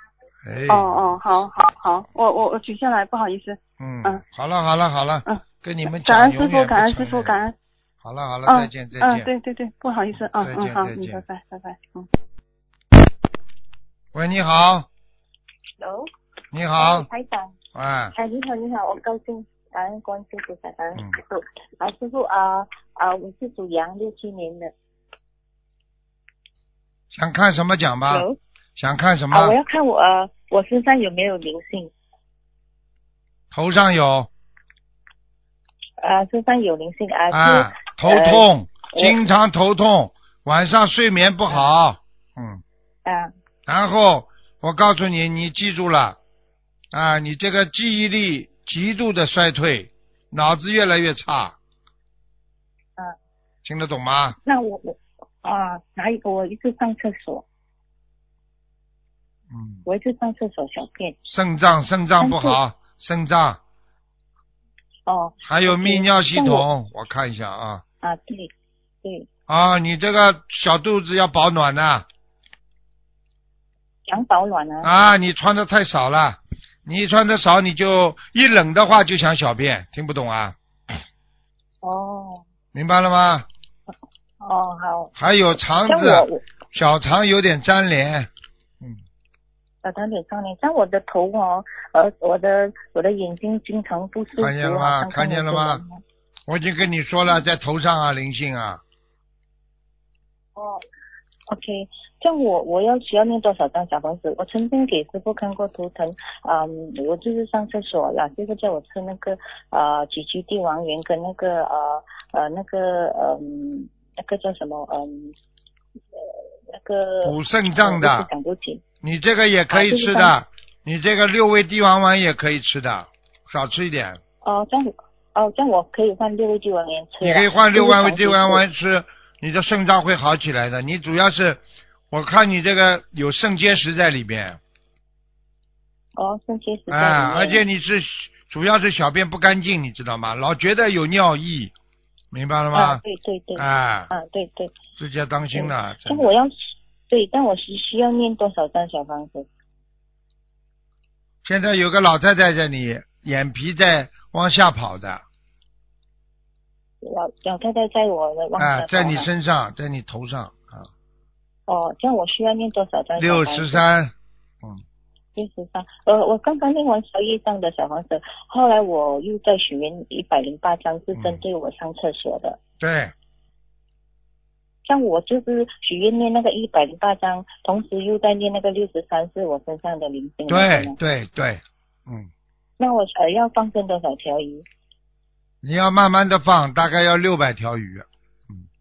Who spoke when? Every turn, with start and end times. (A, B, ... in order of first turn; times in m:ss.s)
0:00.4-0:01.2 A
0:00.7-0:04.2 B
0:03.8-0:07.4 A
0:05.3-0:07.6 B
0:08.0-0:09.3 A
0:08.4-0:12.1 B
0:10.4-0:11.2 A
0:14.1-0:14.9 A
0:15.8-0:16.1 C
0:16.5-0:17.1 A
0:16.8-0:17.6 C
0:17.7-0:18.1 A
0:18.1-0:24.7 C
0:27.1-0:28.3 A
0:28.1-0:28.4 C
0:28.8-0:29.6 A
0:29.3-0:31.9 C
0:33.5-0:34.3 A
0:36.0-0:39.2 C
0:37.3-0:42.6 A
0:43.0-0:43.3 C
0:43.7-0:46.2 A
0:46.9-0:51.6 A
0:53.6-0:54.4 A
0:54.4-0:57.4 C
0:59.5-0:59.8 A
0:59.9-1:01.2 C
1:01.2-1:03.6 A
1:02.2-1:02.6 C
1:05.1-1:06.6 C
1:05.4-1:07.8 A
1:08.0-1:08.5 C
1:09.5-1:12.1 A
1:14.1-1:14.9 C
1:14.8-1:21.0 A
1:21.8-1:22.4 C
1:22.7-1:23.4 A
1:24.4-1:25.1 C
1:25.2-1:28.3 A
1:25.9-1:26.4 C
1:29.8-1:36.0 C
1:34.4-1:35.8 A
1:36.5-1:38.8 A
1:40.6-1:40.8 C
1:41.5-1:55.4 C
1:56.2-1:58.8 C
1:57.2-1:58.3 A
1:59.0-2:04.2 A
1:59.7-2:00.4 C
2:04.4-2:08.6 C
2:07.2-2:14.6 A
2:16.2-2:17.6 C
2:16.9-2:21.7 A
2:22.3-2:23.0 A
2:22.7-2:24.8 C
2:23.6-2:24.1 A
2:25.0-2:26.3 A
2:25.5-2:29.5 C
2:31.4-2:35.2 A
2:37.0-2:39.3 C
2:38.6-2:40.9 A
2:41.7-2:43.8 C
2:43.2-2:44.8 A
2:45.4-2:52.6 C
2:52.8-2:53.1 A
2:54.8-3:01.0 C
3:00.5-3:02.3 A
3:02.8-3:04.6 C
3:05.6-3:08.6 A